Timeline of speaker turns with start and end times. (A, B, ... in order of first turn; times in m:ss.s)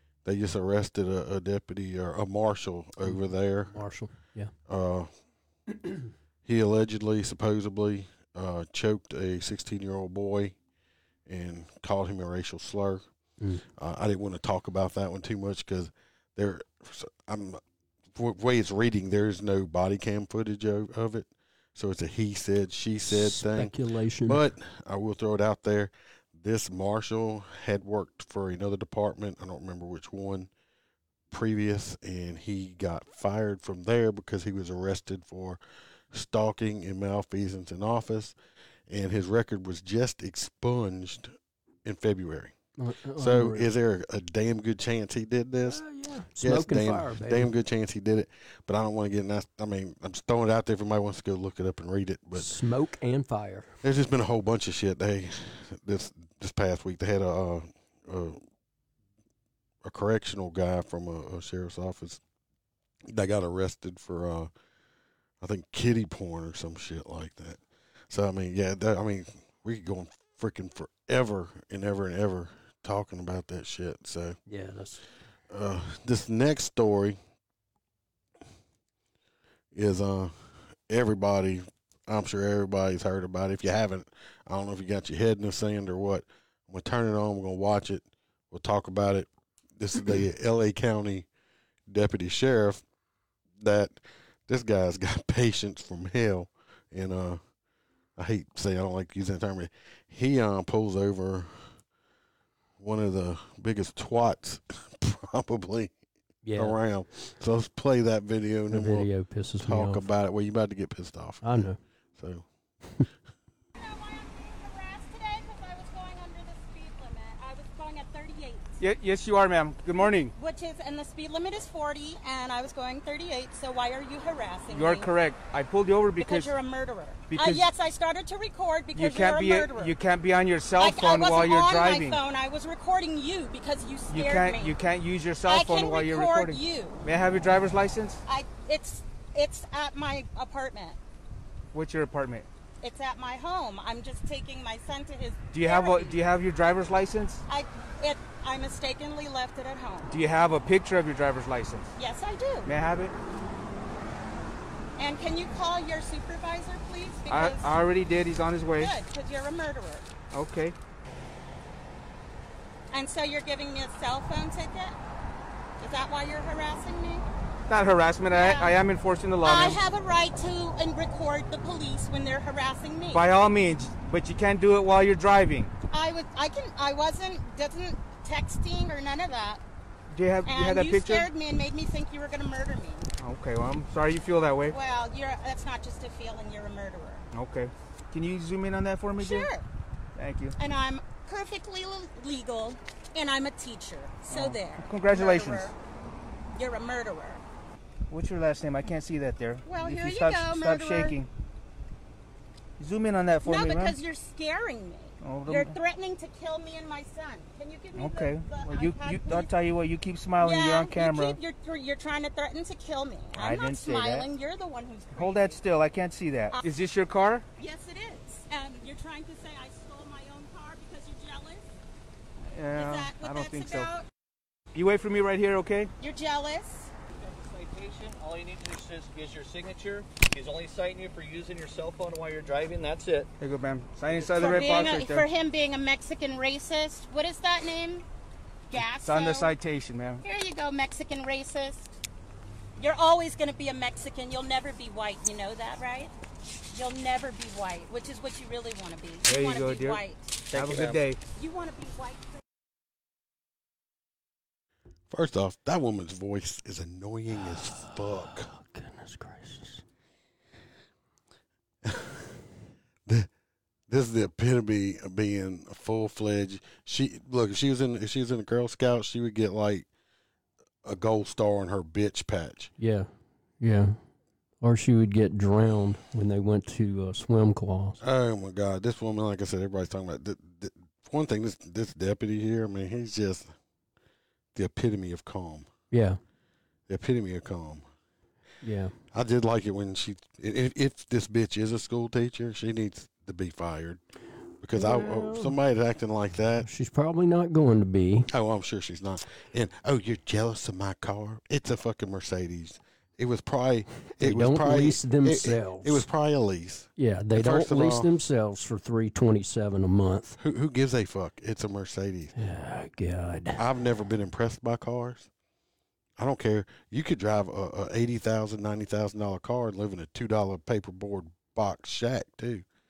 0:00.2-0:03.8 A
0:03.0-0:04.5 B
0:04.7-0:05.1 A
0:06.4-0:10.6 A
0:11.2-0:13.0 A
0:13.8-0:17.6 A
0:18.1-0:30.5 A
0:23.1-0:24.4 B
0:31.3-0:35.6 A
0:36.1-0:38.3 A
0:38.9-0:42.5 A
0:42.8-0:43.7 B
0:43.2-0:45.8 A
0:45.7-0:47.5 B
0:46.4-0:52.5 A
0:52.3-0:53.8 B
0:53.8-0:58.4 A
0:59.8-1:02.2 A
1:03.0-1:04.5 A
1:05.4-1:14.4 A
1:14.5-1:15.0 B
1:15.5-1:17.2 A
1:19.7-1:31.3 A
1:31.9-1:32.8 A
1:33.6-1:37.4 A
1:38.2-1:41.8 A
1:42.8-1:45.9 A
1:46.4-1:46.8 B
1:46.6-1:52.4 A
1:48.7-1:50.0 B
1:51.4-1:51.8 B
1:53.8-1:58.8 C
1:58.8-2:00.3 D
2:00.0-2:05.1 C
2:04.7-2:06.5 D
2:06.2-2:10.0 C
2:07.3-2:07.7 D
2:08.9-2:12.2 D
2:10.8-2:14.8 C
2:14.1-2:18.2 D
2:15.4-2:17.1 C
2:18.2-2:21.0 C
2:21.7-2:22.4 D
2:22.8-2:26.2 C
2:25.5-2:27.4 D
2:27.5-2:30.1 C
2:30.1-2:31.9 D
2:32.0-2:32.7 C
2:32.6-2:33.1 D
2:35.0-2:37.8 C
2:37.3-2:38.9 D
2:38.7-2:40.1 C
2:40.3-2:40.7 D
2:42.9-2:45.0 C
2:45.8-2:47.2 C
2:47.7-2:49.8 D
2:48.3-2:48.8 C
2:49.4-2:53.4 C
2:53.1-2:55.7 D
2:55.9-2:59.6 C
3:00.1-3:01.3 D
3:00.4-3:03.1 C
3:03.2-3:04.8 D
3:04.7-3:07.2 C
3:07.3-3:09.5 D
3:09.2-3:09.6 C
3:10.2-3:10.5 D
3:10.6-3:15.8 C
3:14.3-3:15.7 D
3:16.5-3:17.4 C
3:18.1-3:21.3 D
3:19.6-3:21.2 C
3:22.8-3:24.0 D
3:23.4-3:29.5 C
3:25.2-3:25.8 D
3:27.9-3:31.4 D
3:30.4-3:35.6 C
3:33.3-3:34.3 D
3:35.1-3:37.4 D
3:37.6-3:41.6 C
3:42.5-3:43.9 D
3:42.7-3:44.0 C
3:44.7-3:45.9 D
3:46.0-3:46.9 C
3:47.1-3:53.3 E
3:53.4-3:55.2 D
3:54.1-3:54.5 E
3:54.3-3:58.0 C
3:58.7-3:59.5 C
3:59.0-4:00.2 D
4:00.2-4:01.9 C
4:02.8-4:06.1 C
4:06.7-4:12.4 C
4:09.2-4:11.2 D
4:15.1-4:18.5 A
4:17.6-4:19.8 B
4:21.8-4:22.3 A
4:23.9-4:29.9 A
4:30.8-4:32.7 A
4:32.8-4:33.1 B
4:33.6-4:34.0 B
4:34.6-4:38.0 B
4:38.0-4:43.5 A
4:44.5-4:45.7 A
4:45.9-4:46.2 B
4:46.9-4:47.9 A
4:48.6-4:48.9 B
4:49.1-4:54.0 A
4:54.6-4:56.7 A
4:54.7-4:55.5 B
4:56.6-4:58.3 B
4:58.3-5:08.1 A
5:04.1-5:06.0 B
5:07.0-5:10.4 B
5:10.4-5:12.3 A
5:12.4-5:13.6 B
5:13.6-5:15.3 A
5:16.2-5:22.6 A